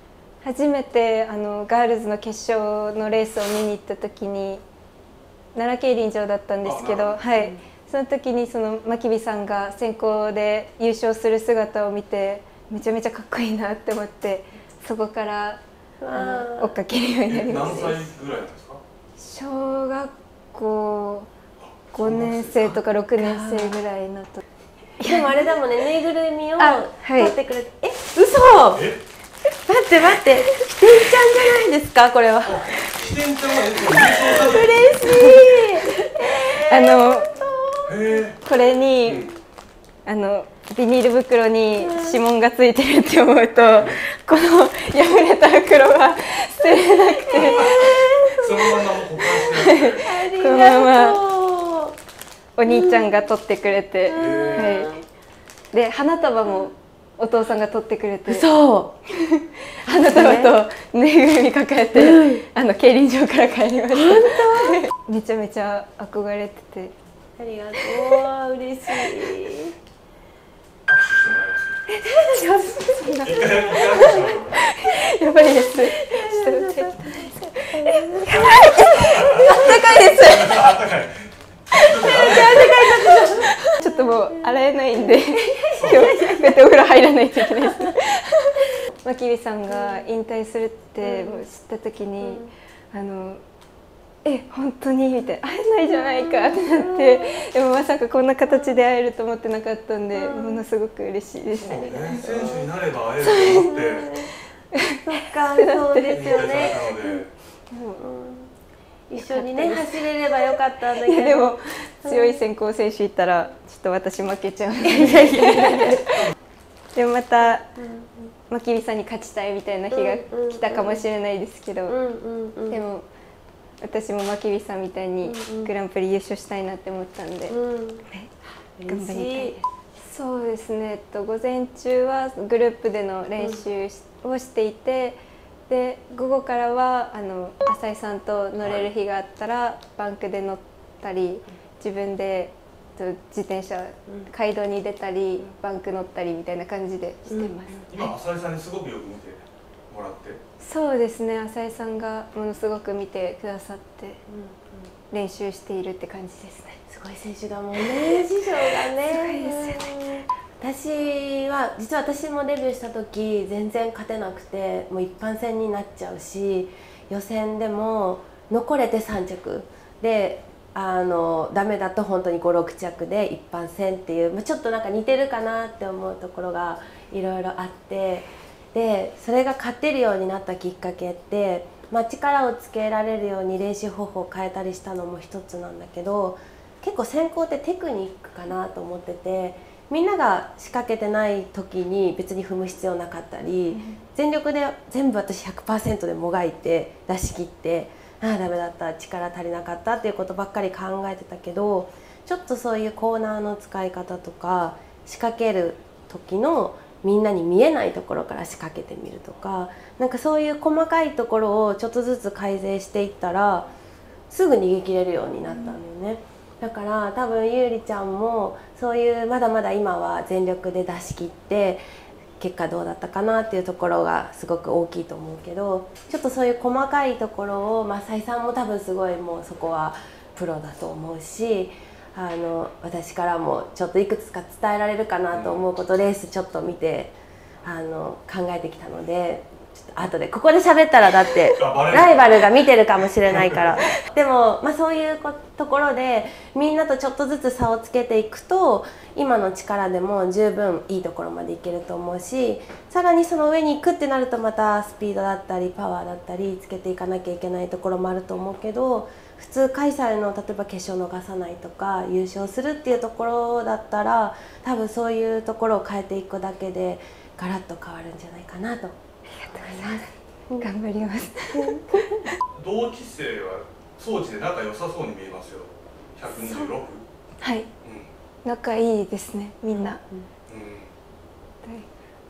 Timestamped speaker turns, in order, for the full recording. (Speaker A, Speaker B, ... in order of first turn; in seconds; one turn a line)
Speaker A: 0.4-4.6
Speaker A: 5.5-15.6
Speaker B: 6.6-7.2
Speaker C: 7.3-7.6
Speaker C: 16.0-16.7
Speaker A: 16.1-18.0
Speaker B: 17.3-18.8
Speaker A: 19.2-21.3
Speaker B: 21.6-22.8
Speaker A: 21.9-24.4
Speaker C: 23.2-23.8
Speaker A: 25.0-25.5
Speaker C: 25.0-28.9
Speaker A: 26.6-27.3
Speaker B: 28.7-29.0
Speaker C: 29.7-32.7
Speaker B: 32.4-35.1
Speaker C: 33.9-38.2
Speaker A: 35.0-37.4
Speaker B: 37.9-38.4
Speaker A: 38.4-39.3
Speaker B: 39.0-39.3
Speaker A: 40.0-48.4
Speaker C: 41.7-42.2
Speaker C: 47.3-48.5
Speaker B: 47.3-50.1
Speaker A: 49.4-51.2
Speaker C: 50.0-52.0
Speaker A: 52.5-54.9
Speaker C: 52.6-53.2
Speaker C: 54.1-55.0
Speaker B: 54.1-54.9
Speaker A: 55.7-58.5
Speaker C: 58.3-59.0
Speaker A: 59.2-66.9
Speaker C: 59.9-60.5
Speaker C: 61.9-62.4
Speaker C: 63.9-64.9
Speaker C: 67.4-69.7
Speaker B: 70.9-71.8
Speaker A: 71.9-80.6
Speaker B: 73.2-74.7
Speaker C: 75.8-80.1
Speaker B: 79.1-82.9
Speaker A: 81.8-93.4
Speaker C: 82.1-86.6
Speaker B: 85.7-86.2
Speaker C: 87.5-88.0
Speaker C: 89.7-90.0
Speaker C: 91.0-91.4
Speaker C: 92.2-92.5
Speaker A: 94.2-102.3
Speaker C: 95.9-97.4
Speaker C: 98.5-98.8
Speaker C: 100.1-100.6
Speaker B: 101.5-104.1
Speaker C: 101.7-102.7
Speaker A: 103.2-104.3
Speaker C: 103.7-104.3
Speaker C: 104.8-107.0
Speaker A: 105.5-107.1
Speaker B: 106.1-107.3
Speaker A: 107.7-108.0
Speaker C: 108.0-108.5
Speaker C: 109.1-112.4
Speaker A: 109.2-116.3
Speaker C: 114.8-116.0
Speaker A: 116.9-117.7
Speaker C: 117.7-118.3
Speaker A: 118.5-122.0
Speaker C: 119.9-121.0
Speaker C: 121.9-122.8
Speaker A: 122.7-123.1
Speaker A: 123.8-127.6
Speaker C: 125.2-125.7
Speaker C: 127.5-128.1
Speaker C: 128.8-129.6
Speaker A: 128.9-147.8
Speaker C: 133.4-133.6
Speaker B: 138.6-138.9
Speaker C: 147.2-147.9
Speaker B: 147.9-150.4
Speaker A: 150.6-154.2
Speaker C: 154.3-154.9
Speaker A: 155.1-156.8
Speaker C: 156.9-213.7
Speaker A: 159.1-159.9
Speaker A: 193.7-194.0
Speaker C: 214.3-221.8
Speaker A: 215.5-215.8
Speaker C: 222.4-269.0
Speaker B: 235.3-235.6
Speaker B: 241.6-242.5
Speaker B: 243.2-243.7
Speaker A: 269.3-272.3
Speaker C: 269.5-270.7
Speaker C: 271.6-272.2
Speaker B: 272.5-277.0
Speaker A: 276.3-276.7
Speaker A: 277.4-277.7
Speaker B: 277.8-278.1
Speaker A: 278.4-280.0
Speaker C: 279.7-280.2
Speaker B: 280.5-280.9
Speaker A: 281.6-281.9